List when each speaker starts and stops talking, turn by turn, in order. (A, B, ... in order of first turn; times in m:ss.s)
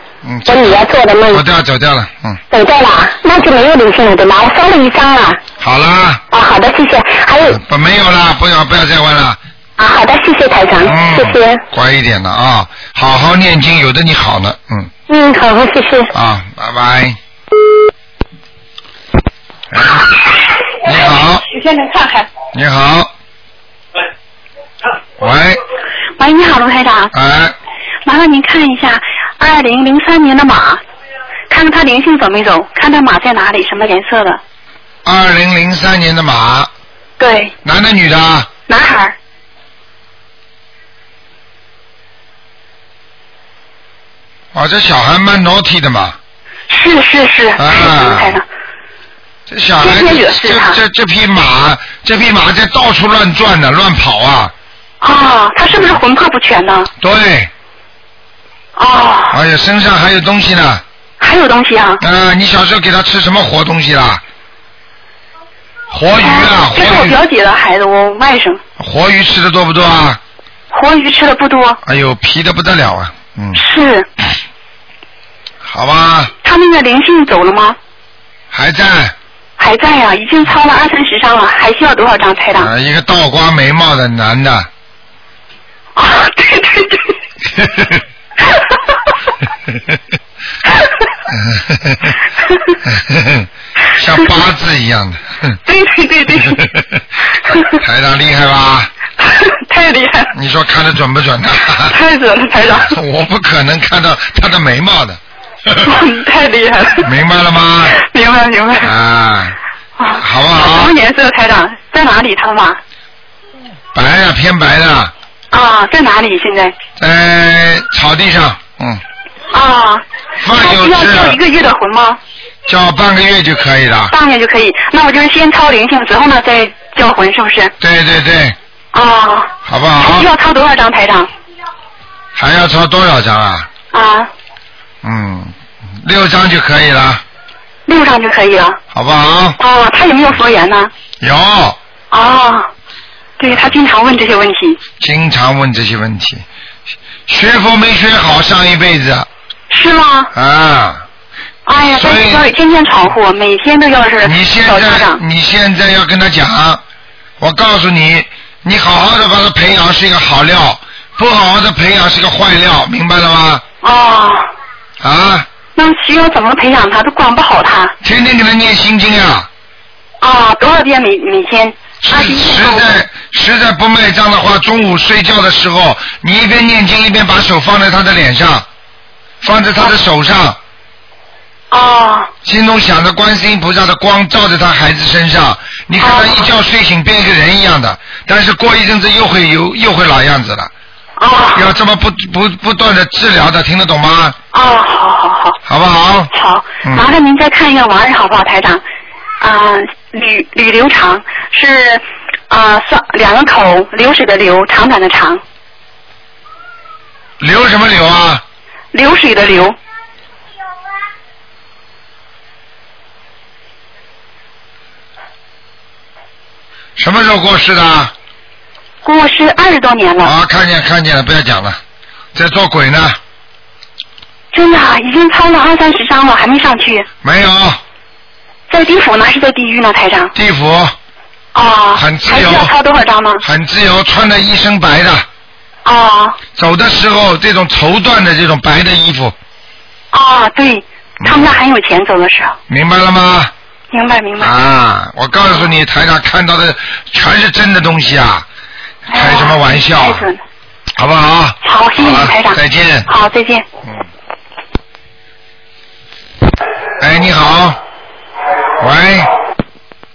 0:00.2-0:02.4 A
0:00.5-0:01.4 B
0:02.5-0:05.4 B
0:05.6-0:06.2 A
0:06.3-0:07.6 B
0:07.5-0:09.4 A
0:09.8-0:11.6 B
0:10.8-0:14.9 A
0:15.1-0:16.1 B
0:16.1-0:17.2 A
0:19.7-0:20.2 A
0:20.8-0:21.4 A
0:22.5-0:23.1 A
0:25.2-0:25.6 A
0:26.2-0:27.1 C
0:27.1-0:27.6 A
0:28.1-0:30.8 C
0:31.5-0:34.4 C
0:35.0-0:36.7 A
0:37.2-0:37.5 C
0:37.6-0:38.5 A
0:38.7-0:39.2 C
0:44.5-0:46.2 A
0:46.7-0:48.4 C
0:47.6-0:48.4 A
0:49.5-0:54.5 A
0:49.8-0:50.8 C
0:55.0-0:56.9 C
0:55.7-0:56.0 A
0:57.0-0:57.5 A
0:58.8-0:59.4 C
0:59.3-1:00.8 A
1:01.2-1:02.0 C
1:02.0-1:04.2 A
1:05.9-1:07.2 A
1:06.2-1:08.6 C
1:08.8-1:10.2 A
1:10.7-1:11.8 C
1:11.8-1:13.6 A
1:13.6-1:14.1 C
1:15.6-1:16.3 A
1:16.4-1:17.8 C
1:18.5-1:19.2 A
1:19.6-1:22.7 C
1:22.6-1:24.7 A
1:26.0-1:27.0 C
1:27.6-1:28.0 A
1:31.3-1:32.2 A
1:32.8-1:35.6 A
1:35.7-1:36.6 C
1:36.3-1:37.0 A
1:37.7-1:38.9 A
1:39.2-1:40.3 C
1:40.3-1:42.0 A
1:41.9-1:42.9 C
1:42.7-1:46.0 A
1:45.9-1:47.0 C
1:47.0-1:48.0 A
1:48.0-1:48.9 C
1:48.8-1:49.6 A
1:50.0-1:52.8 C
1:50.2-1:50.9 A
1:53.9-1:55.1 A
1:55.5-1:56.7 C
1:57.0-1:59.0 A
1:59.5-2:00.0 C
2:00.4-2:01.4 A
2:00.6-2:02.2 C
2:02.7-2:04.1 A
2:04.1-2:07.7 C
2:07.8-2:08.6 A
2:08.9-2:11.3 C
2:09.7-2:10.3 A
2:12.4-2:13.7 A
2:13.9-2:14.3 C
2:15.0-2:17.2 A
2:17.9-2:18.8 C
2:18.9-2:19.6 A
2:19.6-2:20.9 C
2:21.2-2:21.8 A
2:22.1-2:22.7 C
2:23.4-2:24.8 C
2:23.4-2:23.7 A
2:25.0-2:26.4 A
2:27.3-2:29.3 A
2:29.7-2:30.3 C
2:30.3-2:31.0 A
2:31.7-2:35.2 C
2:31.8-2:32.5 A
2:34.2-2:36.8 A
2:37.4-2:43.6 A
2:43.8-2:44.5 C
2:45.0-2:45.5 A
2:45.8-2:47.9 C
2:48.0-2:49.5 A
2:50.2-2:53.0 C
2:52.0-2:58.7 A
2:59.4-3:00.6 A
3:01.7-3:02.3 C
3:02.4-3:10.7 A
3:06.0-3:06.5 C
3:11.2-3:11.7 C
3:11.5-3:14.4 A
3:14.5-3:15.6 C
3:15.7-3:16.3 A
3:16.3-3:18.8 C
3:19.4-3:25.4 C
3:27.4-3:28.4 A
3:28.9-3:29.8 C
3:37.0-3:38.1 A
3:39.0-3:40.3 C
3:40.2-3:41.8 A
3:42.4-3:43.2 A
3:44.5-3:47.0 C
3:47.2-3:47.8 A
3:48.7-3:50.3 C
3:50.4-3:50.9 A
3:51.6-3:53.4 C
3:51.9-3:52.7 A
3:53.4-3:55.2 A
3:55.9-3:56.4 C
3:56.6-3:59.4 A
4:00.1-4:02.6 C
4:01.2-4:01.6 A
4:02.7-4:03.5 A
4:03.9-4:04.5 C
4:04.4-4:08.5 A
4:09.1-4:10.3 A
4:09.1-4:10.4 C
4:11.0-4:13.1 A
4:11.6-4:13.6 C
4:17.0-4:17.8 A
4:18.8-4:19.3 A